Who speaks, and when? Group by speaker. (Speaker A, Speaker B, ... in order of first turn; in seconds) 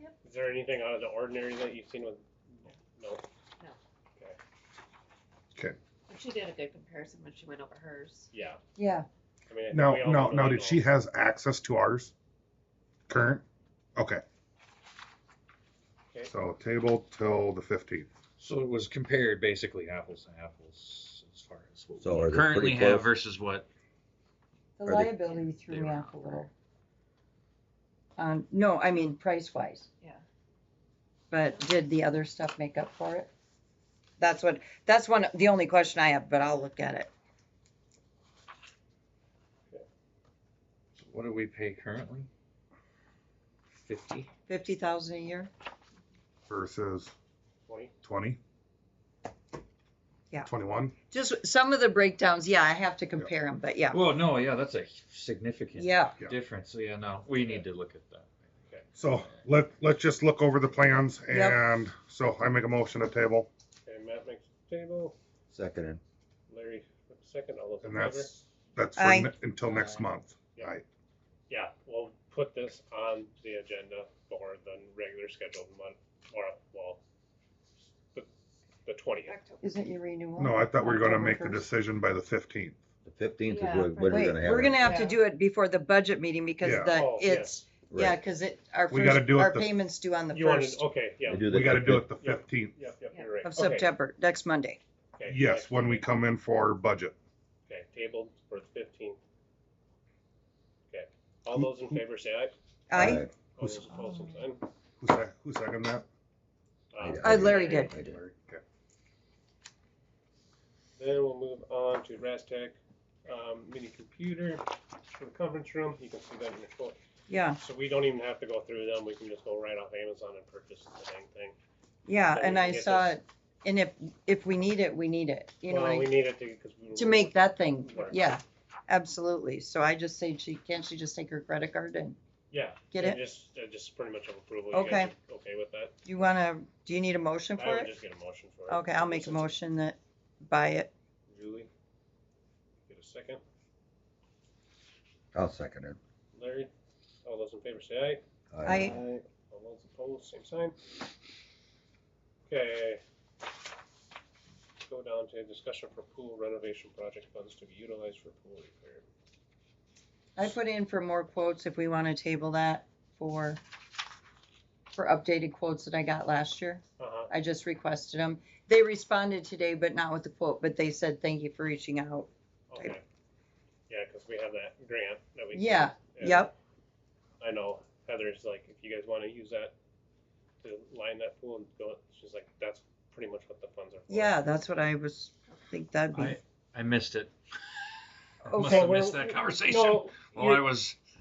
Speaker A: 0.2-3.2, 8.3-8.6, 9.5-10.8, 47.7-47.9, 57.4-57.7, 63.9-65.1, 66.5-68.3, 71.5-77.0, 78.8-79.4, 86.9-87.6, 90.3-91.5, 92.1-93.9, 95.2-96.1, 97.7-99.2, 100.9-102.5, 103.5-104.6, 106.9-108.2, 111.0-114.6, 115.1-117.0, 117.6-121.6, 122.3-123.1, 125.7-128.2, 132.5-136.0, 137.5-139.5, 141.3-141.7, 142.8-143.4, 146.3-146.7, 147.2-148.2, 149.5-150.8, 152.5-153.0, 154.8-159.1, 167.0-167.3, 172.7-173.0, 173.9-176.5, 177.4-179.7, 180.6-184.4, 188.5-190.7
Speaker B: 6.1-8.3, 79.3-79.6, 83.5-84.2, 84.8-85.2
Speaker C: 8.8-9.1, 24.8-26.5, 28.2-29.9, 31.3-33.3, 34.2-37.1, 44.5-45.5, 51.1-54.0, 55.7-56.2, 61.3-61.6, 69.0-69.3, 79.6-81.6, 84.1-90.9, 93.4-94.8, 102.9-103.2, 107.2-107.9, 117.3-117.6, 122.1-126.1, 126.9-132.2, 132.9-133.2, 134.7-135.1, 136.0-137.9, 138.7-140.9, 148.6-149.0, 160.3-163.6, 164.9-173.0, 175.5-176.5, 184.1-186.4, 188.4-188.9
Speaker D: 9.7-12.1, 13.1-13.4, 13.9-14.2, 16.3-18.1, 46.5-47.1, 48.0-48.4, 50.5-51.0, 59.0-63.5, 67.8-70.8, 80.4-82.8, 86.6-87.0, 88.9-89.8, 91.5-92.8, 95.2-97.1, 103.5-103.9, 105.0-106.0, 107.4-107.8, 108.3-108.6
Speaker E: 18.4-23.7, 25.7-26.1, 41.0-42.3, 43.7-44.3, 53.9-58.3, 69.6-70.0, 186.1-187.3, 188.4-191.0
Speaker F: 22.0-23.1, 24.9-25.2, 65.5-66.0, 83.0-84.9, 87.8-88.2, 91.2-92.1, 103.0-103.3, 107.0-108.2, 145.3-146.0, 148.5-149.2